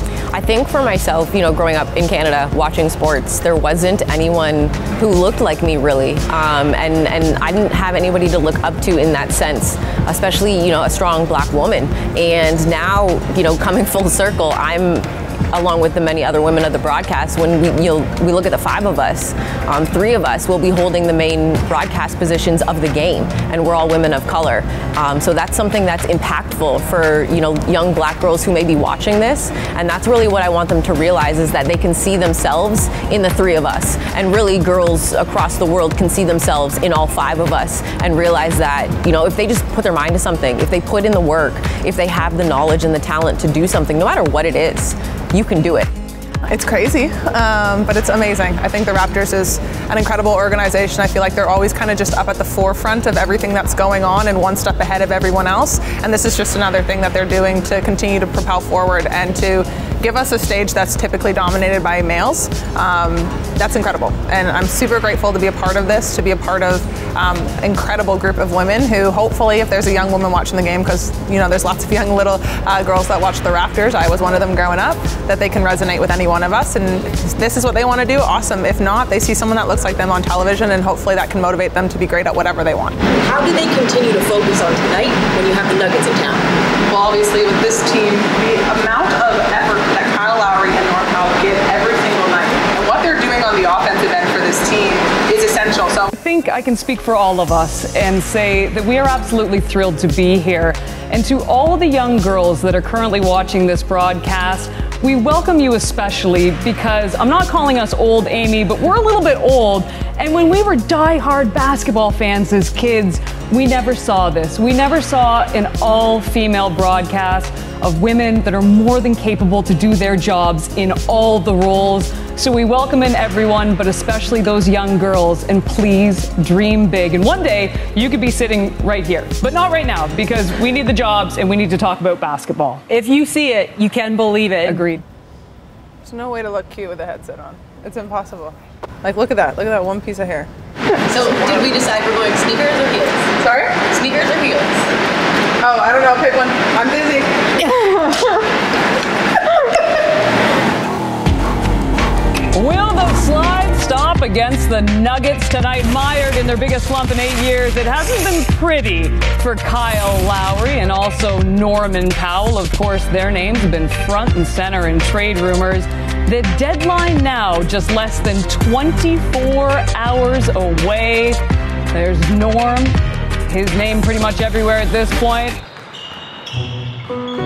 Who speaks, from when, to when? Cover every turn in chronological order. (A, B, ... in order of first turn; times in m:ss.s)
0:00.3-0:45.9 A
0:46.5-1:22.9 B
1:23.9-1:25.4 C
1:25.9-1:26.4 C
1:26.9-1:36.1 B
1:36.1-2:12.8 D
2:12.9-2:15.0 E
2:14.6-2:15.0 D
2:16.0-2:20.5 B
2:21.2-2:23.2 A
2:21.2-2:21.8 B
2:23.4-2:23.9 B
2:24.0-2:24.8 A
2:25.6-2:28.4 B
2:32.5-2:51.4 D
2:51.9-2:55.6 D